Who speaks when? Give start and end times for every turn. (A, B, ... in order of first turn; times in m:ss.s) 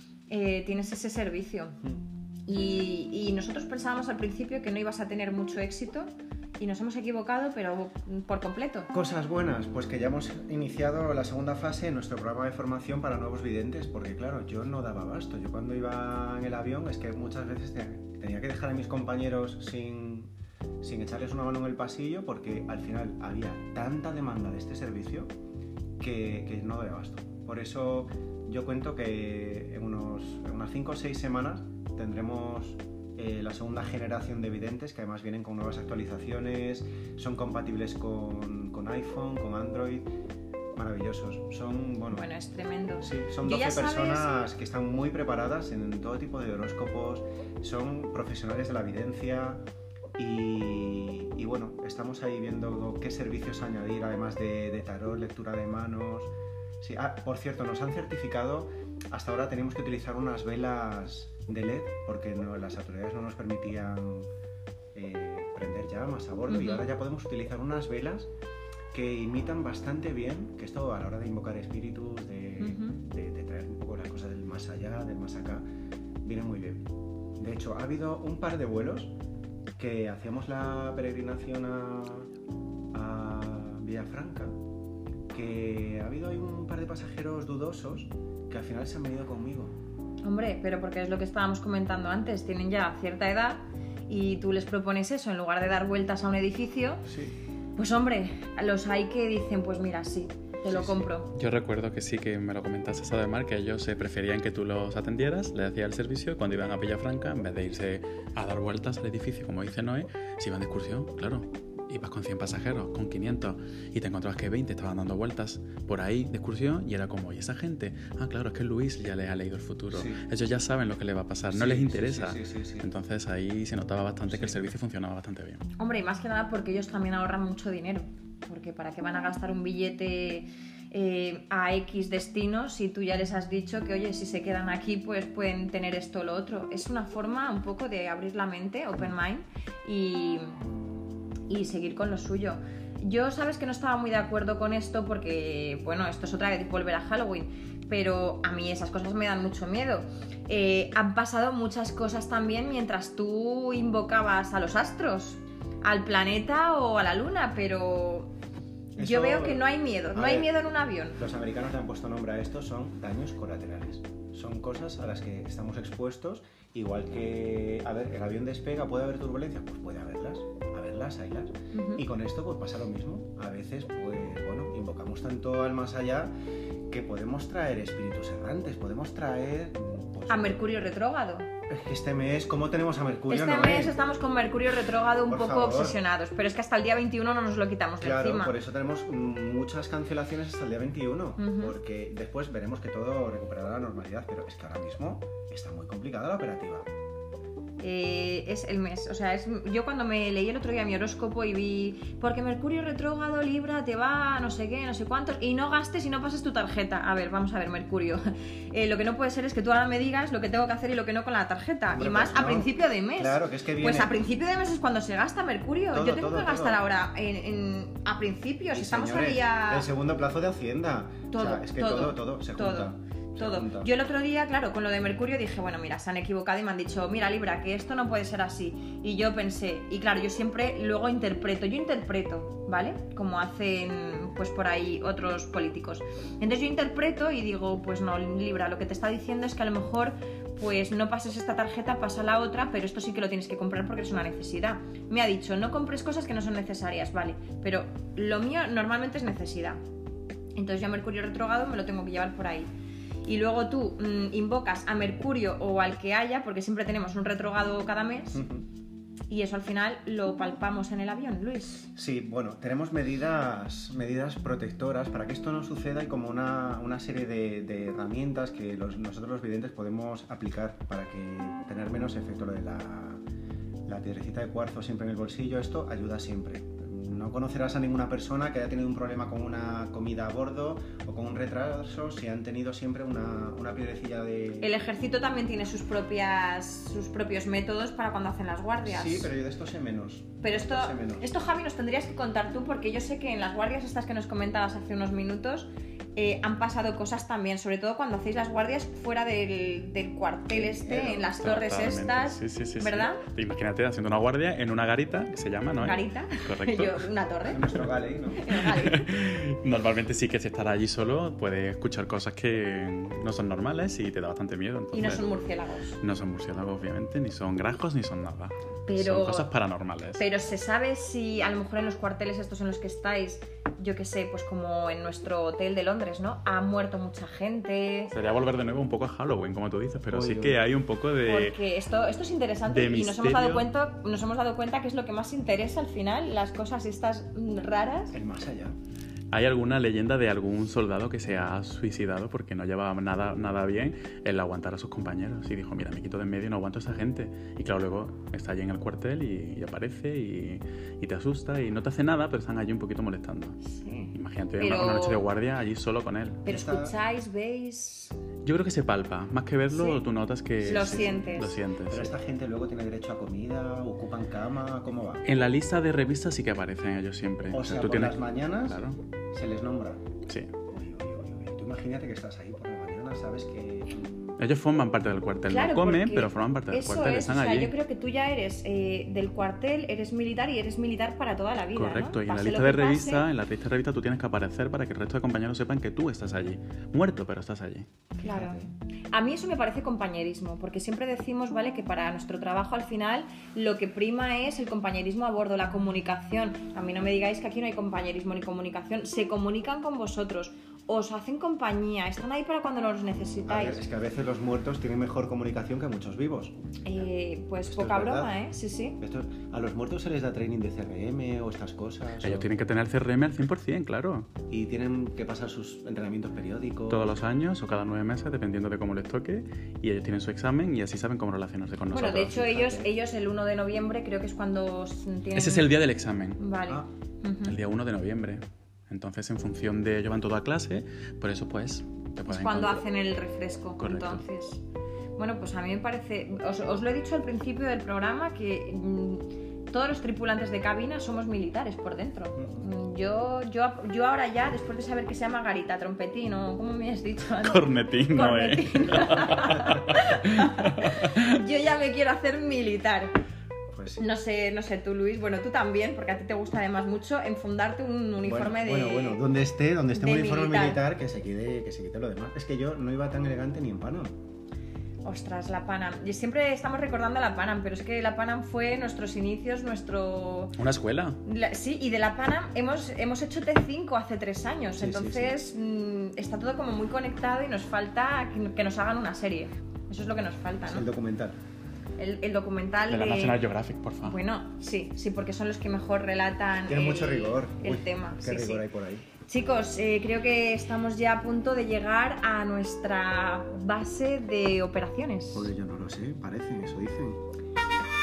0:00.3-0:01.8 A
0:02.4-0:08.9 A
0:08.9-0:20.3 B
0:20.8-0:25.3 B
0:26.0-0:40.1 B
0:40.7-0:42.2 B
0:42.1-0:44.3 A
0:43.0-0:49.6 B
0:50.2-1:04.3 B
1:04.9-1:08.3 B
1:06.5-1:06.8 A
1:08.9-1:15.6 B
1:12.6-1:13.0 A
1:16.2-1:19.1 B
1:19.8-1:22.3 B
1:22.9-1:24.6 B
1:25.3-1:29.7 B
1:30.2-1:37.0 A
1:37.8-1:41.3 A
1:40.6-1:41.1 B
1:41.3-2:05.6 C
1:59.9-2:00.2 B
2:01.5-2:02.9 B
2:04.3-2:04.6 B
2:05.8-2:20.6 A
2:21.5-2:38.3 A
2:39.0-2:41.2 A
2:39.0-2:56.3 B
2:51.7-2:52.0 A
2:56.9-3:00.7 B
3:00.3-3:01.5 A
3:01.7-3:04.0 B
3:03.3-3:08.5 A
3:05.3-3:06.0 B
3:08.0-3:16.9 B
3:11.4-3:11.8 A
3:17.8-3:39.9 A
3:31.9-3:34.2 B
3:35.9-3:36.8 B
3:38.7-3:43.9 B
3:41.3-4:09.8 A
4:10.5-4:12.7 A
4:13.2-4:18.4 A
4:18.3-4:18.6 B
4:19.3-4:21.9 A
4:21.9-4:33.2 B
4:33.9-4:44.7 B
4:44.6-4:49.3 A
4:48.8-4:51.3 B
4:50.4-5:03.2 A
5:00.5-5:01.3 B
5:01.4-5:07.1 C
5:05.8-5:07.8 A
5:07.4-5:08.5 B
5:08.4-5:09.1 A
5:08.6-5:15.2 C
5:14.9-5:16.0 A
5:16.0-5:20.2 C
5:18.9-5:19.5 A
5:20.2-5:28.1 A
5:28.1-5:31.6 C
5:30.1-5:30.6 B
5:31.2-5:38.2 A
5:32.7-5:33.7 C
5:38.1-5:38.7 B
5:39.3-5:53.6 C
5:53.6-5:55.2 A
5:54.1-5:56.4 C
5:56.4-5:58.1 A
5:56.4-5:56.9 B
5:58.4-6:02.1 C
5:59.7-6:00.0 A
6:00.6-6:01.6 A
6:00.7-6:01.1 B
6:01.9-6:05.2 B
6:05.2-6:09.0 C
6:07.5-6:10.1 B
6:10.7-6:14.4 B
6:14.4-6:17.7 C
6:15.5-6:23.3 A
6:21.7-6:27.9 C
6:28.2-6:28.6 A
6:28.2-6:28.7 B
6:29.1-6:43.8 A
6:43.4-6:46.5 B
6:46.8-6:49.0 A
6:47.7-6:48.4 B
6:49.0-6:52.5 B
6:52.2-6:54.3 C
6:54.5-6:57.2 B
6:56.9-7:02.6 C
7:01.9-7:05.7 A
7:02.4-7:02.9 B
7:05.3-7:06.4 C
7:06.4-7:07.6 A
7:07.4-7:12.8 C
7:12.3-7:14.6 A
7:13.8-7:14.2 C
7:15.2-7:33.1 A
7:22.4-7:22.6 B
7:27.4-7:31.4 C
7:33.7-7:34.1 B
7:34.0-7:39.2 A
7:38.2-7:44.1 B
7:39.9-7:40.8 A
7:45.0-7:50.6 A
7:50.6-7:51.2 C
7:51.2-8:00.9 A
7:54.8-7:55.4 B
8:00.7-8:01.4 B
8:02.0-8:03.4 A
8:02.9-8:04.2 C
8:04.0-8:08.6 A
8:06.7-8:09.1 B
8:09.2-8:15.5 A
8:15.3-8:17.2 B